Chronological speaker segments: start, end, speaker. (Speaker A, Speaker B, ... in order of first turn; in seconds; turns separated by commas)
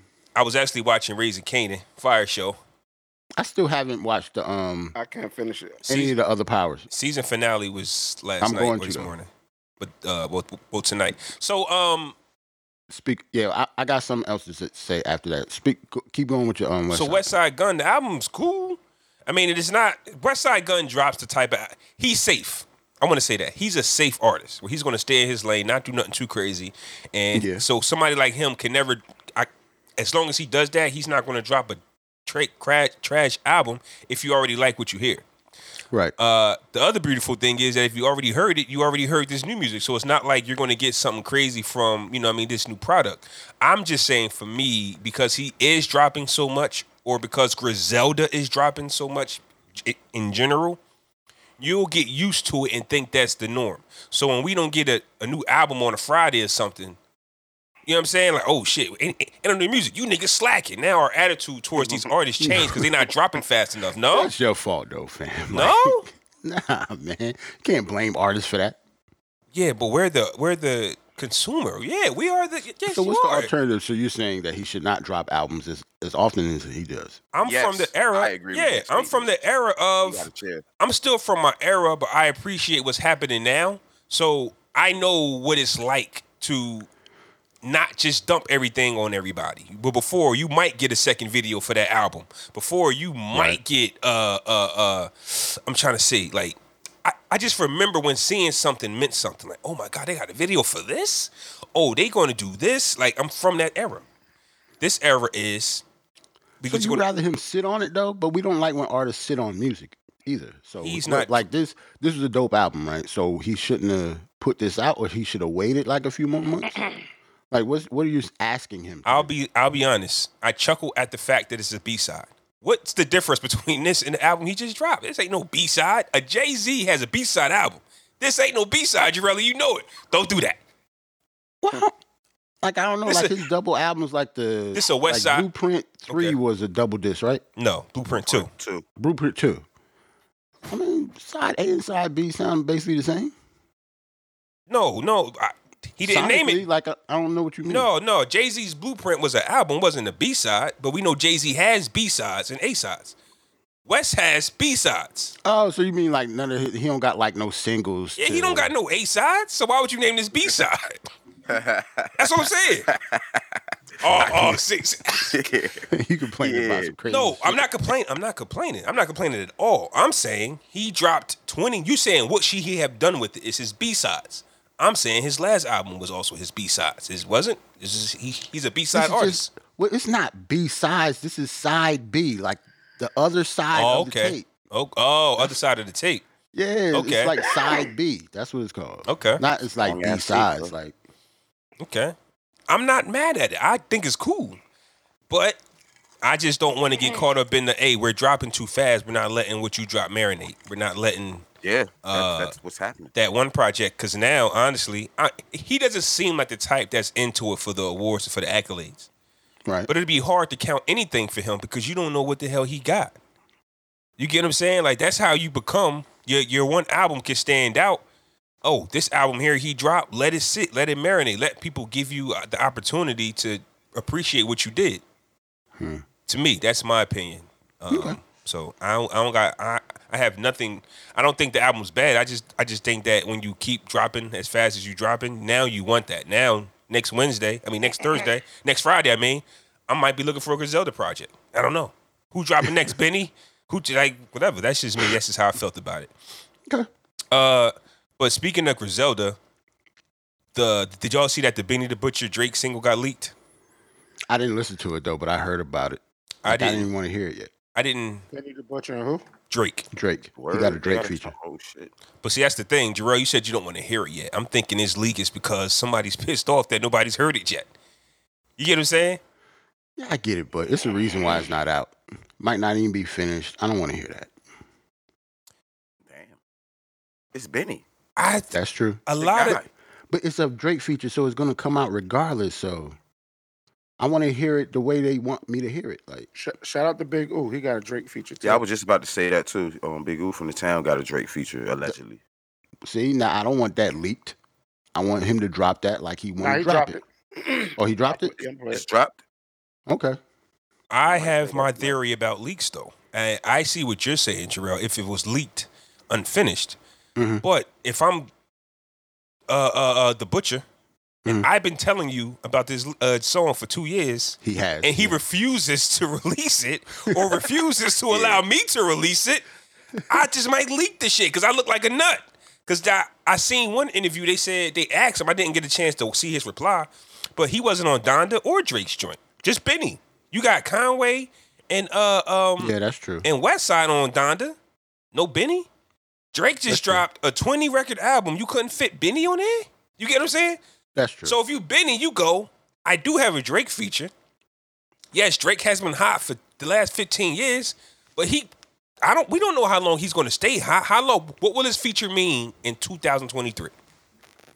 Speaker A: 0.3-2.6, Speaker B: 3.4-4.9, Speaker C: 4.9-5.8, Speaker A: 5.8-6.1, Speaker B: 5.9-6.9, Speaker A: 6.9-9.3, Speaker B: 8.4-9.1, Speaker A: 9.8-12.2, Speaker B: 12.9-17.3, Speaker A: 16.9-35.2, Speaker B: 27.3-27.6, Speaker A: 36.2-50.8, Speaker A: 51.6-57.0, Speaker A: 57.9-64.3, Speaker D: 61.8-62.0, Speaker B: 62.4-62.9, Speaker B: 64.1-68.8, Speaker A: 65.5-66.1, Speaker A: 69.5-73.5, Speaker B: 72.8-77.2, Speaker A: 77.3-80.3, Speaker D: 77.4-79.3, Speaker D: 80.0-80.6, Speaker A: 80.8-86.9, Speaker A: 87.6-104.0, Speaker B: 93.3-93.6, Speaker A: 104.8-105.8, Speaker A: 106.6-107.0, Speaker B: 106.6-116.8, Speaker A: 110.8-111.4, Speaker B: 117.5-119.3, Speaker A: 119.0-130.6, Speaker B: 131.6-131.9, Speaker B: 132.6-137.4, Speaker A: 133.1-133.4, Speaker A: 134.7-135.5, Speaker A: 136.1-136.4, Speaker A: 137.6-138.5, Speaker D: 138.2-138.8, Speaker B: 139.0-139.6, Speaker B: 140.7-143.3, Speaker A: 144.7-146.6, Speaker B: 146.0-147.9, Speaker A: 147.7-153.1, Speaker A: 153.8-155.3, Speaker B: 155.4-158.7, Speaker A: 158.2-161.1, Speaker D: 161.5-163.6, Speaker A: 162.2-162.9, Speaker A: 164.0-165.3, Speaker B: 164.1-164.6, Speaker D: 165.3-165.8, Speaker B: 165.9-167.6, Speaker D: 166.4-166.9, Speaker A: 167.1-179.5, Speaker B: 178.9-184.5, Speaker A: 183.7-186.2, Speaker B: 186.5-190.9, Speaker A: 186.9-187.4, Speaker A: 189.1-189.4, Speaker D: 189.8-190.7, Speaker A: 191.8-192.1, Speaker A: 192.7-194.6, Speaker A: 195.3-195.6, Speaker A: 196.2-201.4, Speaker D: 201.6-203.1, Speaker A: 202.0-202.5, Speaker A: 203.1-209.1, Speaker A: 209.9-213.1, Speaker A: 214.2-218.0, Speaker A: 218.6-225.0, Speaker B: 225.8-226.0, Speaker A: 226.3-246.1, Speaker B: 227.9-228.2, Speaker A: 247.3-249.4, Speaker A: 250.5-253.3, Speaker B: 254.3-257.5, Speaker A: 256.4-256.9, Speaker A: 257.7-258.2, Speaker C: 258.3-259.2, Speaker A: 259.5-259.8, Speaker B: 259.9-261.3, Speaker D: 260.4-261.9, Speaker A: 262.2-267.7, Speaker A: 268.6-269.2, Speaker B: 270.0-274.3, Speaker D: 276.1-276.4, Speaker D: 277.3-277.8, Speaker A: 278.2-278.5, Speaker B: 278.5-279.0, Speaker A: 279.1-279.6, Speaker D: 279.2-279.7, Speaker B: 280.1-282.9, Speaker B: 284.0-286.3, Speaker C: 286.3-288.6, Speaker D: 288.4-292.2, Speaker B: 292.8-294.3, Speaker B: 294.9-297.0, Speaker C: 296.4-298.8, Speaker B: 297.8-298.4, Speaker D: 298.7-299.2, Speaker B: 299.9-300.2, Speaker A: 300.9-306.8, Speaker D: 301.1-301.9, Speaker B: 307.2-307.4, Speaker A: 307.4-308.3, Speaker A: 309.5-310.6, Speaker A: 311.2-319.4, Speaker B: 314.4-315.2, Speaker D: 318.1-318.4, Speaker A: 320.1-334.6, Speaker B: 332.6-333.3, Speaker A: 335.1-335.7, Speaker A: 336.3-340.6, Speaker B: 336.7-337.0, Speaker B: 340.9-341.4, Speaker A: 341.2-344.1, Speaker A: 345.1-348.5, Speaker A: 349.0-353.7